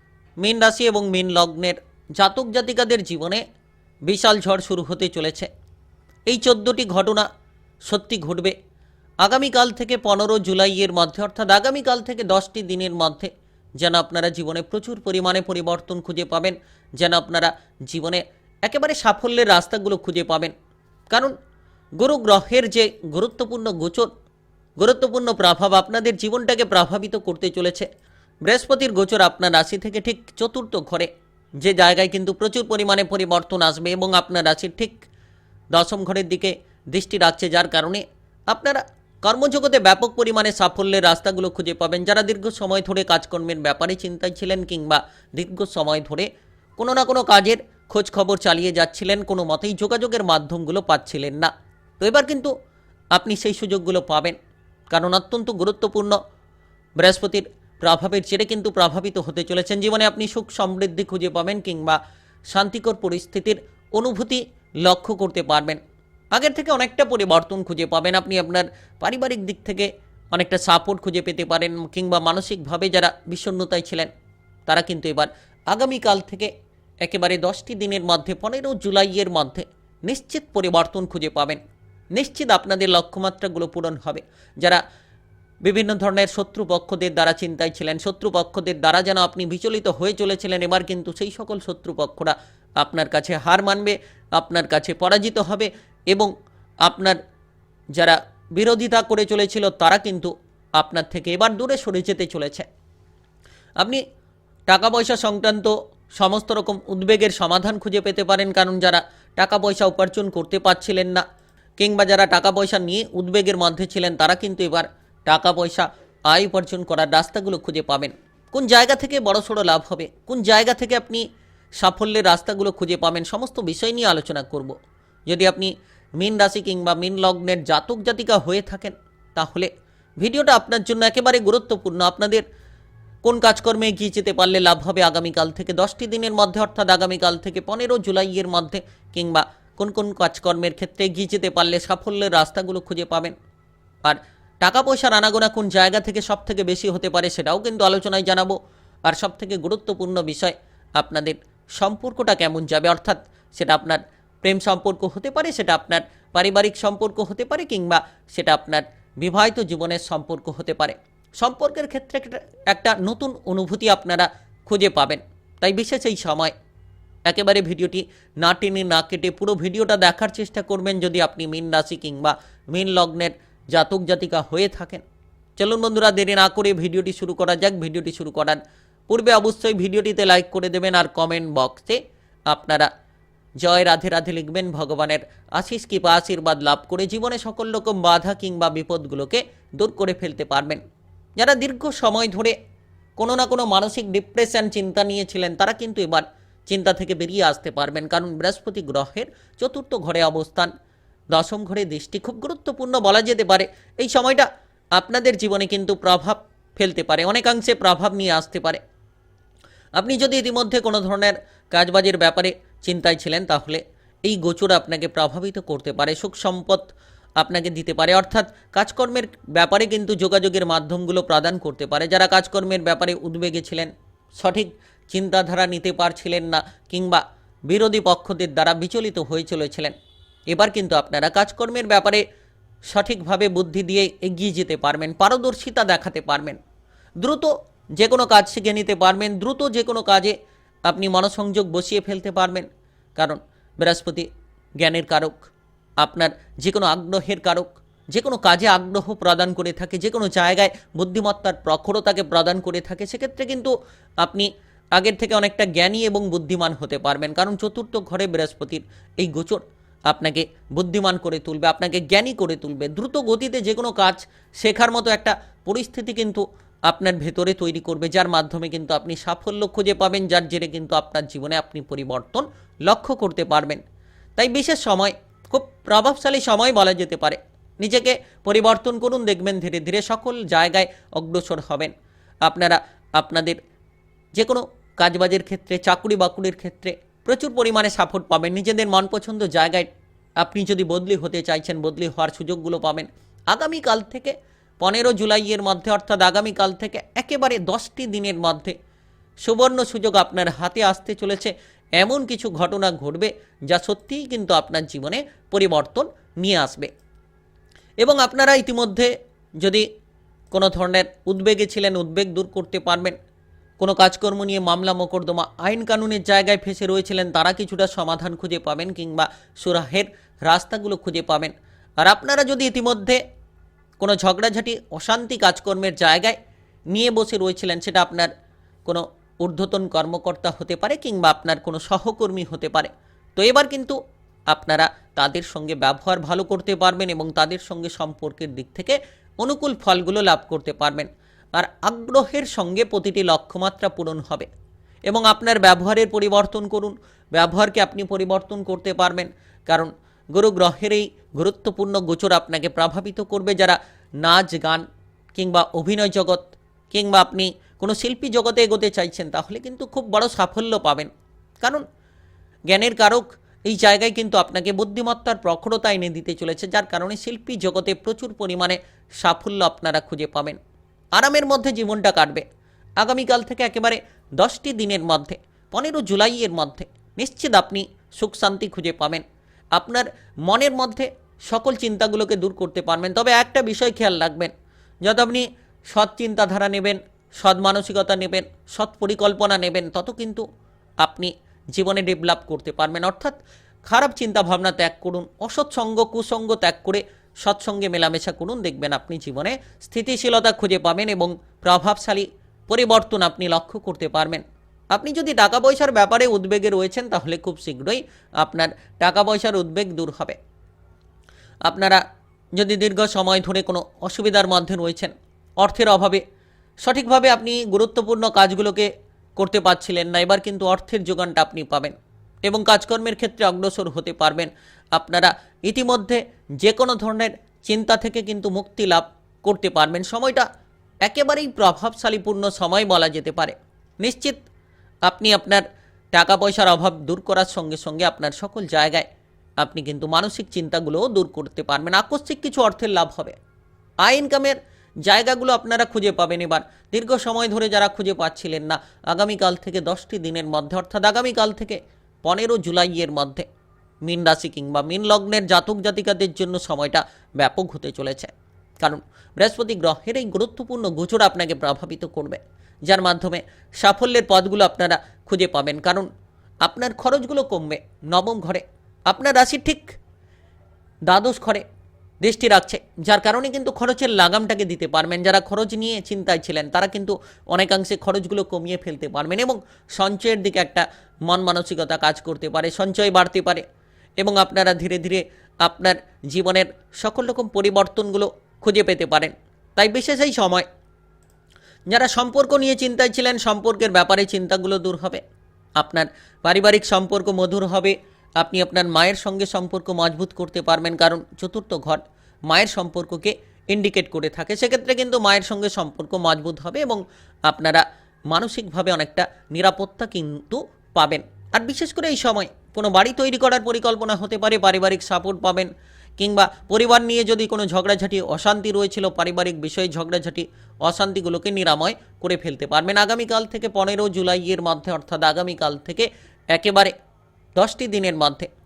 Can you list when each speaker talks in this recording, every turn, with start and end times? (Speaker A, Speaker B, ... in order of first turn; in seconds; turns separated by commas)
Speaker A: 0.4-3.4, Speaker A: 4.1-5.5, Speaker A: 6.3-7.3, Speaker A: 7.9-8.6, Speaker A: 9.2-20.5, Speaker A: 22.0-24.1, Speaker A: 24.8-27.9, Speaker A: 28.5-35.1, Speaker A: 35.7-52.5, Speaker A: 53.1-54.4, Speaker A: 54.9-56.2, Speaker A: 57.0-62.0, Speaker A: 62.5-65.8, Speaker A: 66.3-74.1, Speaker A: 74.7-76.5, Speaker A: 77.0-81.6, Speaker A: 82.1-84.8, Speaker A: 85.6-96.3, Speaker A: 96.8-97.2, Speaker A: 98.0-102.7, Speaker A: 104.7-111.2, Speaker A: 111.8-121.2, Speaker A: 121.8-124.8, Speaker A: 125.3-129.7, Speaker A: 130.2-132.4, Speaker A: 133.2-143.3, Speaker A: 144.1-166.5, Speaker A: 167.3-175.0, Speaker A: 175.6-182.9, Speaker A: 183.6-190.8, Speaker A: 191.4-192.6, Speaker A: 193.2-200.7, Speaker A: 201.3-208.8, Speaker A: 210.0-229.9, Speaker A: 230.5-232.2, Speaker A: 232.9-236.6, Speaker A: 237.2-240.3, Speaker A: 240.9-244.3, Speaker A: 244.8-273.8, Speaker A: 274.4-281.9, Speaker A: 282.4-283.6, Speaker A: 284.3-298.7, Speaker A: 299.4-306.9, Speaker A: 308.0-309.9, Speaker A: 310.5-313.2, Speaker A: 313.8-323.2, Speaker A: 324.0-326.4, Speaker A: 326.9-328.3, Speaker A: 328.9-334.0, Speaker A: 334.5-344.5, Speaker A: 345.1-354.8, Speaker A: 355.4-361.1, Speaker A: 362.7-370.6, Speaker A: 371.2-372.4, Speaker A: 373.0-379.2, Speaker A: 379.8-384.5, Speaker A: 385.0-390.4, Speaker A: 391.0-410.4, Speaker A: 411.7-412.0, Speaker A: 412.6-416.2, Speaker A: 416.8-430.5, Speaker A: 431.1-434.4, Speaker A: 435.1-439.1, Speaker A: 439.6-443.4, Speaker A: 444.0-453.5, Speaker A: 454.0-466.1, Speaker A: 466.6-469.9, Speaker A: 471.1-471.6, Speaker A: 472.2-483.6, Speaker A: 484.2-490.7, Speaker A: 491.9-495.2, Speaker A: 495.8-526.9, Speaker A: 527.6-528.5